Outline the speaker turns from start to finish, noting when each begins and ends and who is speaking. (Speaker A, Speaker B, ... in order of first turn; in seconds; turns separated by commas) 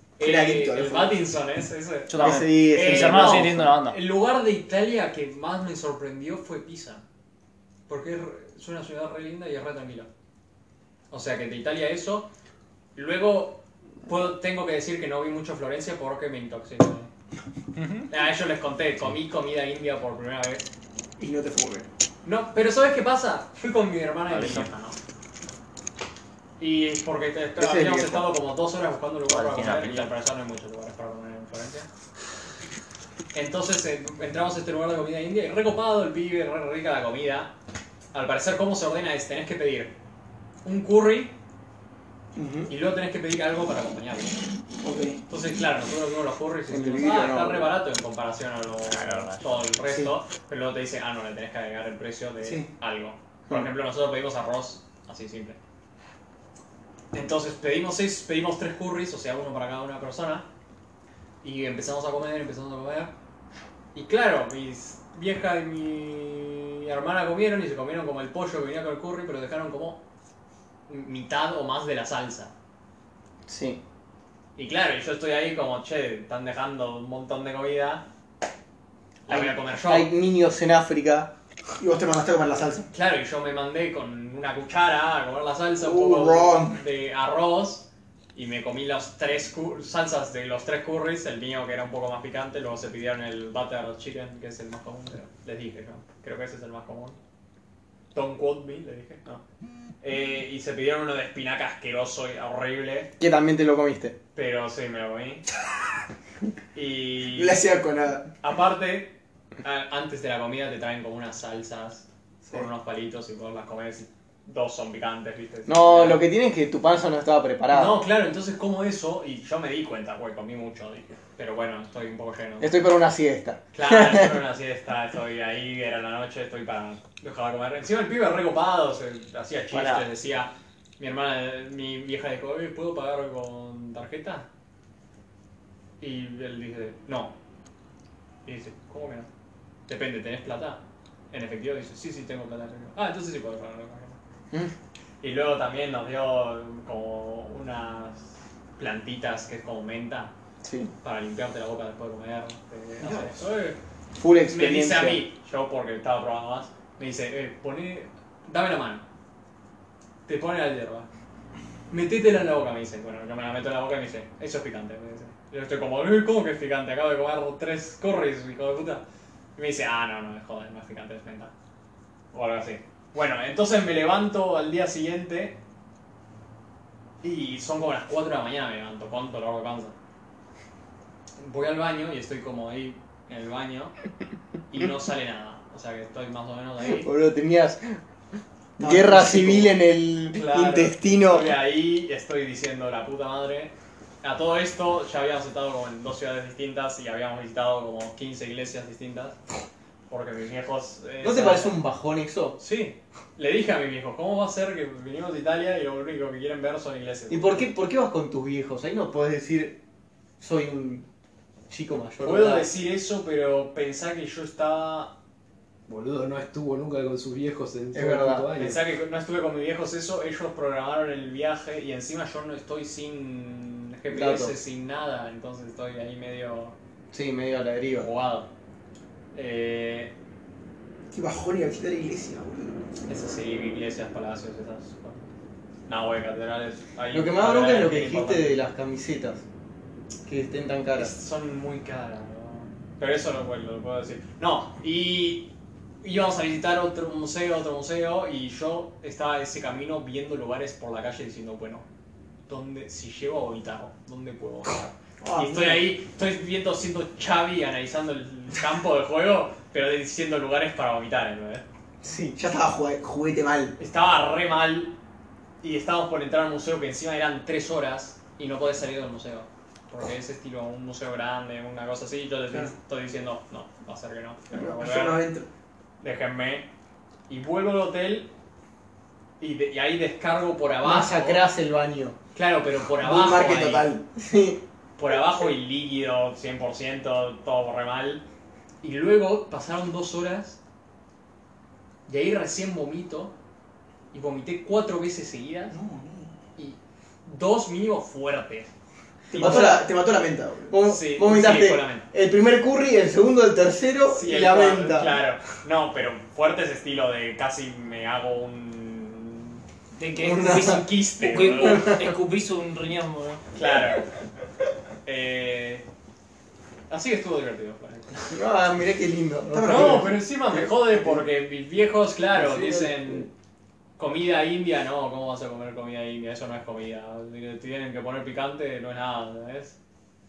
Speaker A: 0.2-7.0, Speaker B: 0.2-1.2, Speaker C: 2.1-4.0, Speaker D: 2.2-3.7, Speaker A: 7.9-10.1, Speaker A: 11.1-12.3, Speaker A: 13.0-17.1, Speaker C: 17.8-18.1, Speaker A: 18.1-20.7, Speaker B: 21.2-21.9, Speaker A: 22.2-25.0, Speaker C: 24.3-24.7, Speaker A: 26.6-31.9, Speaker D: 27.6-28.3, Speaker C: 29.3-30.1, Speaker A: 33.3-37.5, Speaker A: 38.1-40.0, Speaker A: 40.6-41.3, Speaker B: 42.4-42.7, Speaker A: 42.7-44.4, Speaker B: 44.8-45.2, Speaker A: 45.3-55.6, Speaker D: 46.7-47.7, Speaker C: 48.9-49.6, Speaker A: 57.1-60.5, Speaker A: 61.4-63.1, Speaker A: 63.9-70.0, Speaker A: 70.9-72.5, Speaker D: 73.5-73.8, Speaker A: 74.6-78.0, Speaker A: 79.3-80.1, Speaker D: 79.3-81.3, Speaker B: 81.8-82.9, Speaker A: 82.9-97.2, Speaker B: 85.8-86.8, Speaker A: 98.1-99.4, Speaker A: 100.0-103.1, Speaker D: 103.2-104.2, Speaker A: 104.3-105.5, Speaker A: 106.8-107.6, Speaker B: 107.3-108.3, Speaker A: 108.4-116.2, Speaker D: 115.7-118.0, Speaker A: 117.7-122.8, Speaker D: 122.6-124.4, Speaker A: 123.7-134.5, Speaker C: 129.7-130.1, Speaker A: 136.0-137.3, Speaker A: 138.4-139.3, Speaker A: 139.9-140.8, Speaker A: 141.3-144.2, Speaker A: 145.2-150.3, Speaker D: 150.6-150.9, Speaker A: 151.0-153.8, Speaker B: 153.0-153.4, Speaker D: 154.2-155.2, Speaker A: 154.5-159.0, Speaker A: 160.3-161.1, Speaker A: 161.9-169.0, Speaker A: 169.6-171.5, Speaker A: 172.3-175.6, Speaker A: 177.2-179.9, Speaker A: 181.4-183.9, Speaker A: 184.7-187.1, Speaker D: 186.8-188.0, Speaker B: 188.8-189.7, Speaker D: 188.8-191.6, Speaker A: 190.3-199.4, Speaker A: 200.1-201.8, Speaker D: 201.2-202.6, Speaker A: 202.6-207.7, Speaker D: 207.3-209.8, Speaker D: 210.4-211.1, Speaker D: 211.7-212.7, Speaker A: 212.2-215.1, Speaker E: 215.9-218.8, Speaker D: 217.9-218.5, Speaker A: 218.6-226.8, Speaker D: 224.1-224.6, Speaker D: 227.1-228.1, Speaker A: 227.9-228.5, Speaker A: 229.3-230.1, Speaker B: 231.1-232.8, Speaker A: 233.1-235.3, Speaker A: 235.9-238.6, Speaker D: 237.1-239.4, Speaker D: 240.3-241.1, Speaker A: 240.9-245.5, Speaker A: 246.0-251.8, Speaker A: 252.5-261.6, Speaker B: 255.2-255.8, Speaker D: 262.0-262.4, Speaker B: 262.4-263.8, Speaker A: 263.8-264.9, Speaker A: 265.6-275.2, Speaker B: 274.5-275.5, Speaker A: 276.0-276.7, Speaker A: 277.3-278.3, Speaker A: 279.4-281.4, Speaker D: 280.8-282.2, Speaker A: 282.4-283.9, Speaker B: 283.0-284.0, Speaker D: 284.1-284.6, Speaker A: 285.0-288.2, Speaker A: 288.8-290.6, Speaker A: 292.1-293.4, Speaker A: 294.1-295.8, Speaker B: 295.7-296.4, Speaker A: 296.6-298.7, Speaker A: 299.3-299.9, Speaker B: 299.3-300.8, Speaker D: 299.4-299.8, Speaker D: 300.7-305.2, Speaker A: 300.8-302.1, Speaker A: 304.1-309.6, Speaker C: 310.0-313.4, Speaker D: 310.2-310.8, Speaker A: 310.6-312.0, Speaker A: 313.6-314.1, Speaker A: 315.1-315.9, Speaker A: 316.9-318.4, Speaker D: 318.3-320.1, Speaker B: 319.5-320.2, Speaker A: 319.6-323.3, Speaker D: 322.3-323.3, Speaker A: 324.0-329.8